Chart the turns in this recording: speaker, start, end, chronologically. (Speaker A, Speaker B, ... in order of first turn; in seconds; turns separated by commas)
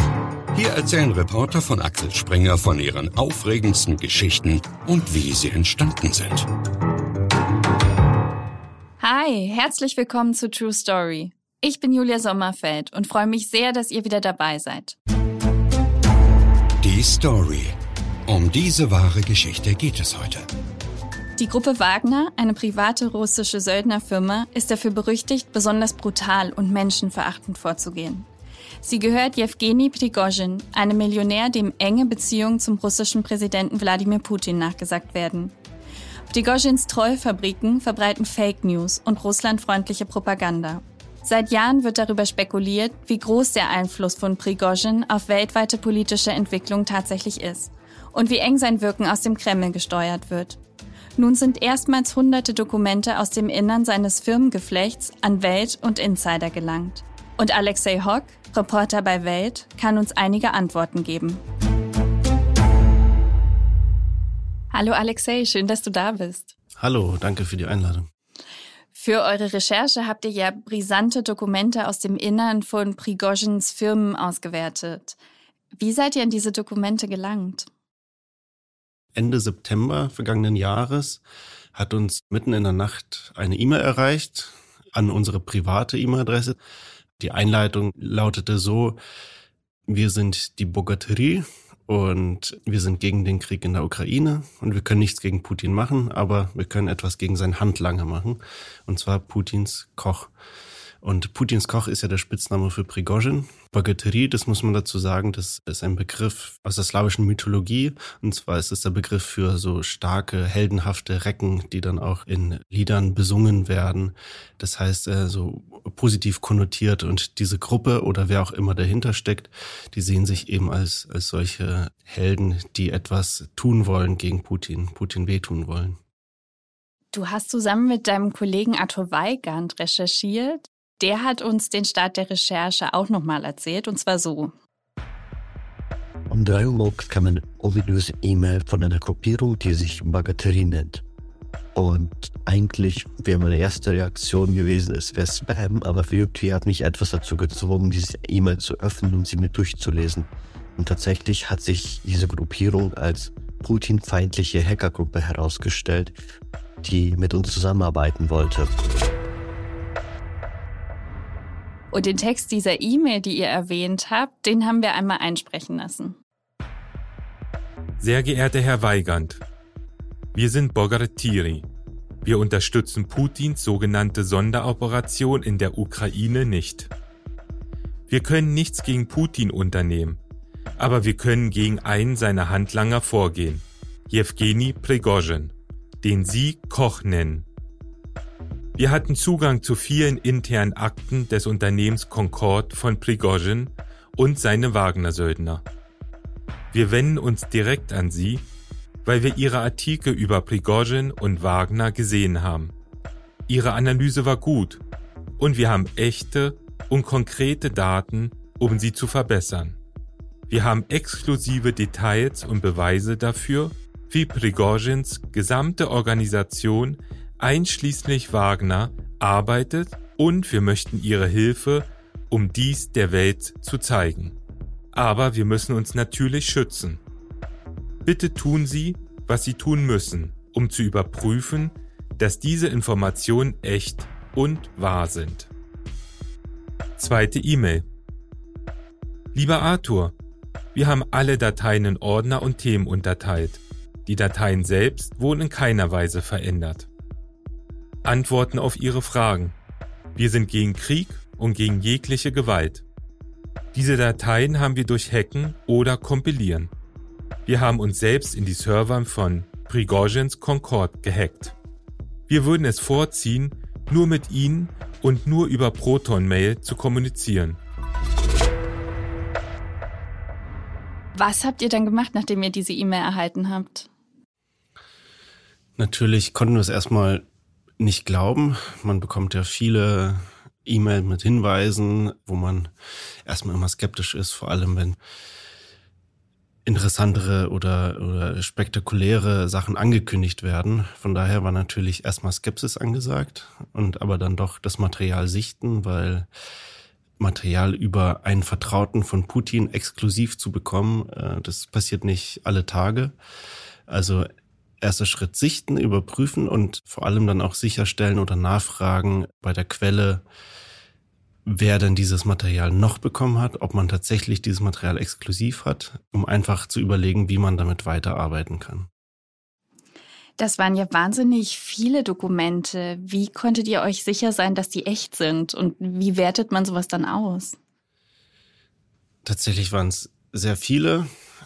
Speaker A: 0.5-6.5, Speaker B: 9.0-15.0, Speaker A: 16.8-17.8, Speaker A: 18.3-20.5, Speaker B: 21.4-28.3, Speaker B: 28.8-35.5, Speaker B: 36.3-50.6, Speaker B: 51.2-61.4, Speaker B: 64.7-66.5, Speaker C: 66.8-68.1, Speaker B: 69.0-75.2, Speaker B: 75.8-77.7, Speaker C: 79.2-81.2, Speaker C: 81.7-86.6, Speaker C: 87.2-89.0, Speaker C: 89.9-100.3, Speaker C: 101.0-126.0, Speaker B: 127.1-134.5, Speaker D: 136.3-141.0, Speaker D: 141.8-156.2, Speaker D: 156.8-158.7, Speaker B: 161.9-166.2, Speaker E: 168.0-169.4, Speaker E: 170.3-171.7, Speaker E: 172.2-176.9, Speaker E: 178.1-180.2, Speaker E: 180.8-187.4, Speaker E: 188.8-195.6, Speaker E: 196.7-198.4, Speaker E: 199.1-202.7, Speaker E: 203.5-204.8, Speaker E: 205.4-209.8, Speaker E: 210.5-224.4, Speaker E: 224.9-227.0, Speaker E: 228.1-235.5, Speaker E: 237.0-237.8, Speaker E: 239.3-240.1, Speaker E: 240.7-246.9, Speaker E: 248.0-249.6, Speaker E: 250.2-252.8, Speaker E: 253.7-256.7, Speaker E: 257.5-261.5, Speaker E: 262.3-267.6, Speaker B: 271.2-273.9, Speaker C: 275.8-277.2, Speaker C: 277.8-282.7, Speaker C: 283.3-285.0, Speaker C: 286.7-296.3, Speaker C: 297.2-303.1, Speaker C: 303.9-304.3, Speaker C: 304.8-310.2, Speaker C: 311.4-318.9, Speaker B: 320.4-327.6, Speaker C: 329.2-331.1